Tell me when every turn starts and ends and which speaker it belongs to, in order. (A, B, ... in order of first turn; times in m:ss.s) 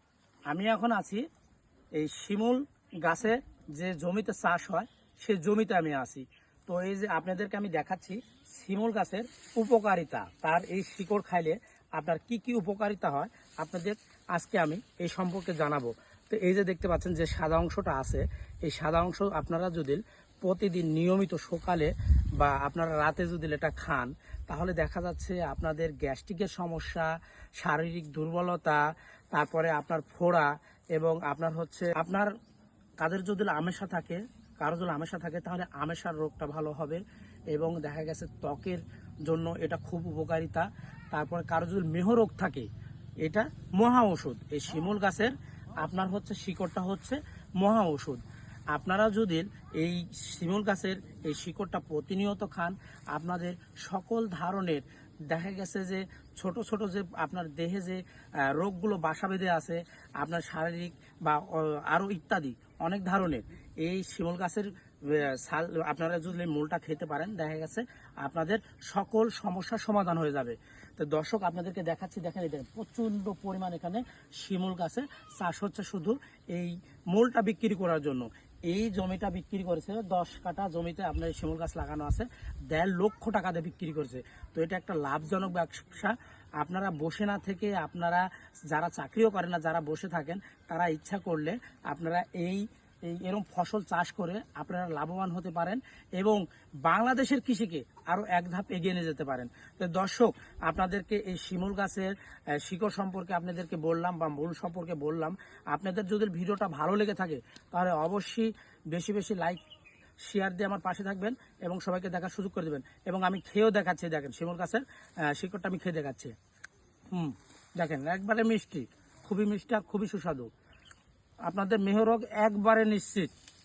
0:00.5-0:01.2 A
0:01.9-0:32.3 A
0:33.0-0:37.0 A
0:37.5-0:42.7 A
0:43.2-1:49.6 A
1:50.2-1:56.3 A
1:57.1-2:00.5 A
2:01.4-2:03.3 A